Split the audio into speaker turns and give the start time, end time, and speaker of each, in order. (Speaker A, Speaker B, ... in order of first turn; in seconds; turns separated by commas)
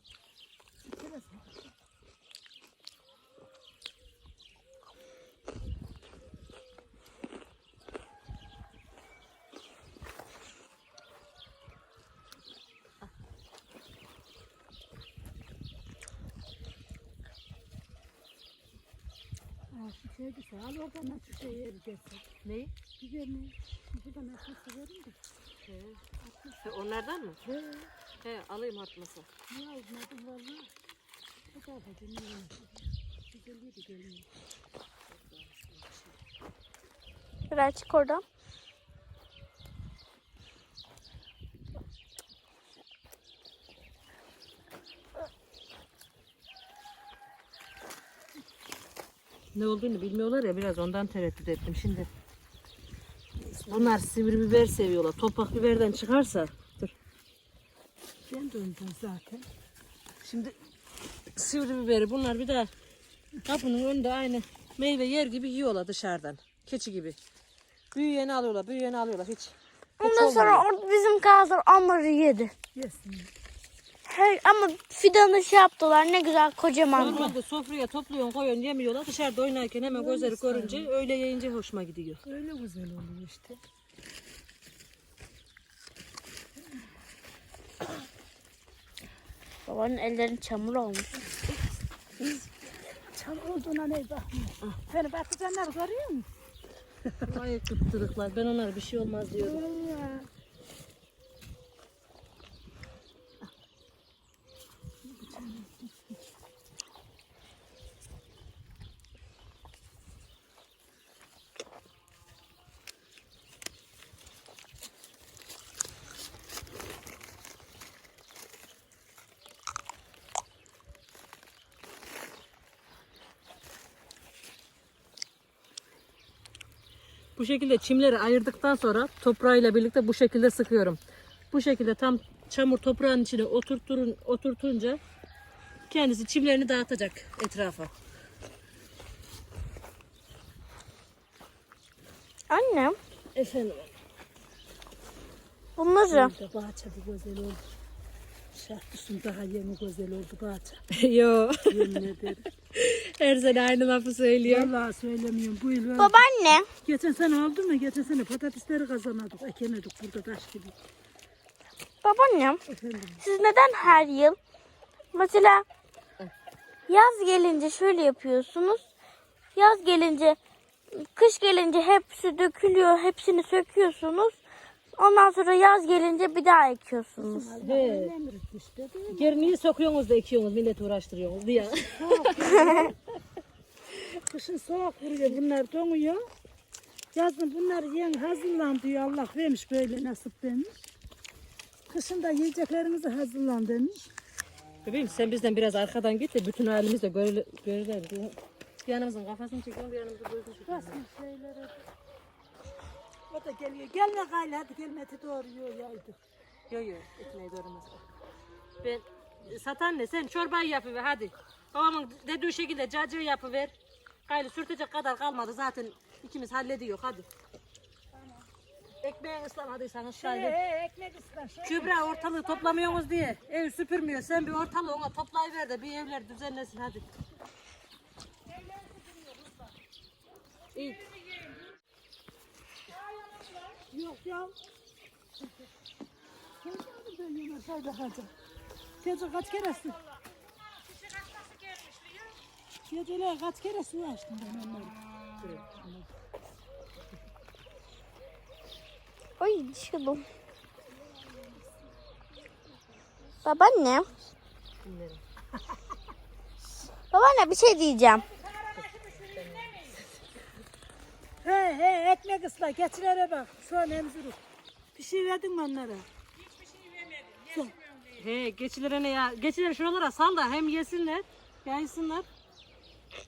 Speaker A: 0.8-1.7, Speaker A: 19.7-22.2, Speaker B: 22.4-22.7, Speaker A: 23.0-25.1, Speaker B: 25.6-26.0, Speaker A: 26.2-26.6, Speaker B: 26.6-27.4, Speaker A: 27.4-27.9, Speaker B: 28.2-29.3, Speaker A: 29.5-30.7, Speaker A: 31.5-34.3, Speaker B: 35.3-35.9, Speaker C: 37.5-38.2, Speaker B: 49.5-52.1, Speaker A: 53.4-54.0, Speaker B: 53.7-56.9, Speaker A: 58.2-59.5, Speaker B: 60.2-60.5, Speaker B: 61.3-62.7, Speaker B: 63.4-67.2, Speaker B: 67.9-70.7, Speaker C: 70.0-72.5, Speaker A: 72.7-73.3, Speaker C: 74.0-77.3, Speaker B: 76.9-82.2, Speaker A: 77.0-77.3, Speaker A: 79.8-80.9, Speaker A: 82.2-83.6, Speaker C: 89.7-91.1, Speaker A: 93.1-96.3, Speaker B: 97.2-99.6, Speaker A: 99.4-100.3, Speaker A: 105.1-105.9, Speaker B: 127.3-131.0, Speaker B: 131.5-135.0, Speaker B: 135.9-137.9, Speaker C: 142.5-143.0, Speaker B: 143.3-143.9, Speaker C: 145.8-146.3, Speaker A: 146.1-147.6, Speaker A: 148.5-150.8, Speaker B: 150.9-152.1, Speaker A: 151.7-152.5, Speaker B: 152.7-154.7, Speaker A: 154.4-156.2, Speaker C: 156.0-156.7, Speaker A: 156.8-160.7, Speaker C: 162.0-162.6, Speaker A: 162.7-163.2, Speaker C: 163.2-164.4, Speaker C: 165.1-165.7, Speaker C: 166.9-168.9, Speaker C: 169.5-170.4, Speaker C: 170.9-174.4, Speaker C: 175.0-177.6, Speaker A: 177.2-179.5, Speaker B: 177.6-178.1, Speaker B: 179.1-182.3, Speaker A: 181.8-183.0, Speaker C: 182.4-182.8, Speaker A: 183.9-186.2, Speaker A: 187.1-190.9, Speaker A: 191.9-194.1, Speaker B: 194.8-201.0, Speaker A: 200.7-201.8, Speaker A: 203.3-206.2, Speaker B: 206.7-208.0, Speaker B: 208.8-213.7, Speaker B: 214.2-217.3, Speaker B: 219.0-220.6, Speaker A: 220.2-223.0, Speaker B: 221.6-227.1, Speaker A: 228.7-229.5, Speaker B: 230.7-231.1, Speaker A: 230.8-231.5, Speaker A: 233.7-234.5, Speaker A: 236.6-238.3, Speaker A: 239.0-240.0, Speaker A: 242.8-245.0, Speaker B: 245.4-245.7, Speaker A: 245.7-246.1, Speaker C: 249.4-250.2, Speaker C: 253.4-254.1, Speaker B: 254.8-255.2, Speaker C: 257.1-258.3, Speaker B: 258.8-260.0, Speaker A: 261.4-264.4, Speaker A: 264.9-266.1, Speaker A: 266.6-267.9, Speaker B: 268.1-272.3